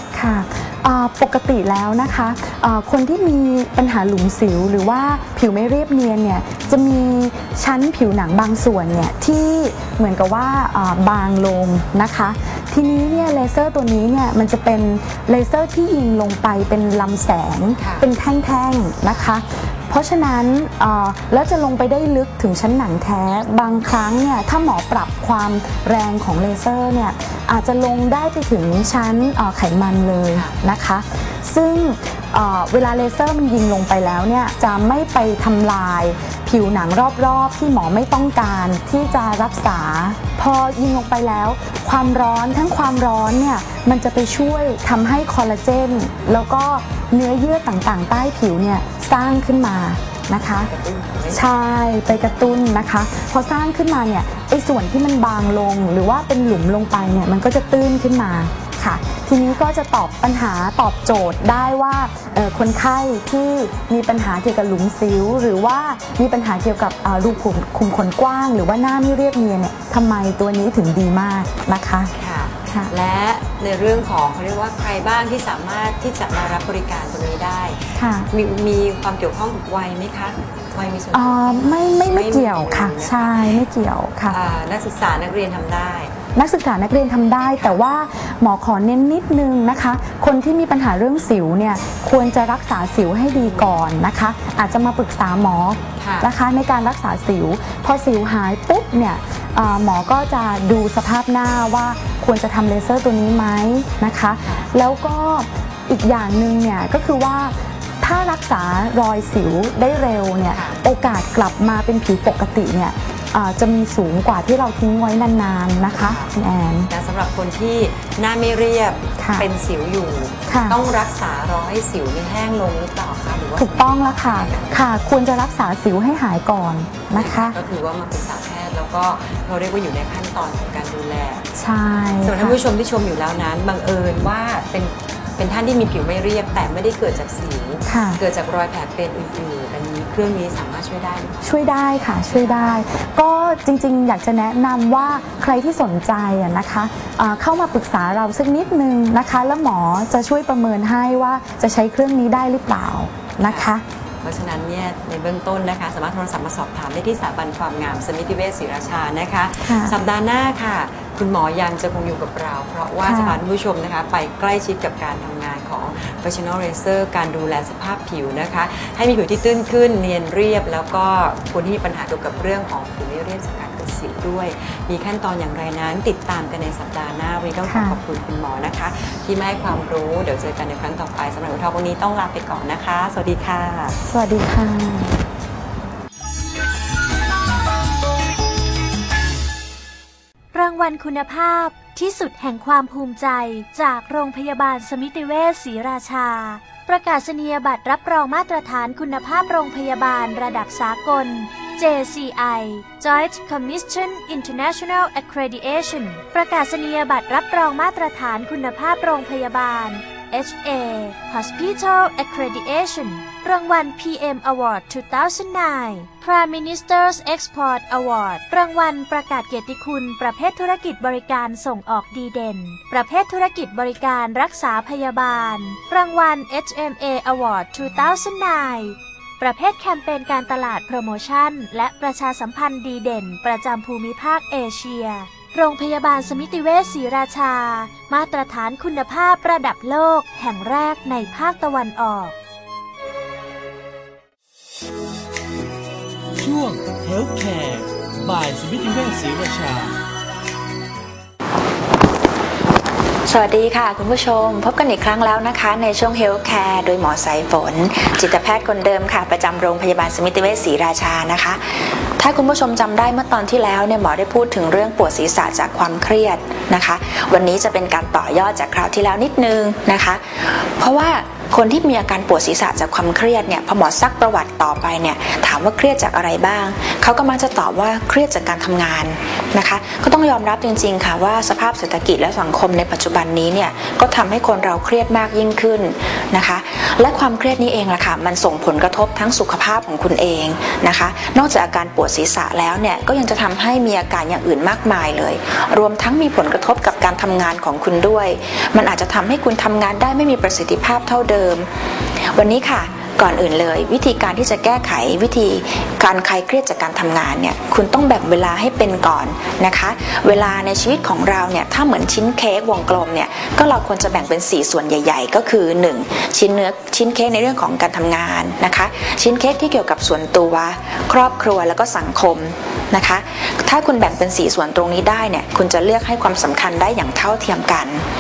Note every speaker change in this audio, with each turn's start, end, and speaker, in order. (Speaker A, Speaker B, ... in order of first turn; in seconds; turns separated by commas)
Speaker A: 0.1-50.7, Speaker B: 17.8-18.1, Speaker B: 19.1-19.3, Speaker B: 30.3-30.6, Speaker B: 39.0-39.4, Speaker B: 50.3-51.4, Speaker A: 51.3-72.1, Speaker B: 52.1-52.6, Speaker B: 59.4-59.7, Speaker B: 72.1-83.7, Speaker A: 72.7-72.9, Speaker A: 78.0-78.3, Speaker A: 81.1-84.4, Speaker B: 84.2-86.1, Speaker A: 86.3-116.9, Speaker B: 93.4-93.7, Speaker B: 96.0-96.3, Speaker B: 104.4-104.7, Speaker B: 110.5-110.8, Speaker B: 115.9-116.3, Speaker B: 116.9-124.9, Speaker A: 119.2-119.5, Speaker A: 120.5-120.8, Speaker A: 123.6-127.6, Speaker B: 127.1-131.4, Speaker A: 131.5-132.6, Speaker B: 132.2-141.6, Speaker A: 137.9-138.2, Speaker A: 141.4-153.8, Speaker B: 142.3-142.8, Speaker B: 153.4-184.0, Speaker A: 159.6-160.0, Speaker A: 163.0-163.4, Speaker A: 177.6-178.0, Speaker A: 184.1-185.2, Speaker C: 190.5-242.3, Speaker D: 246.4-249.9, Speaker E: 253.3-301.7, Speaker E: 302.2-328.0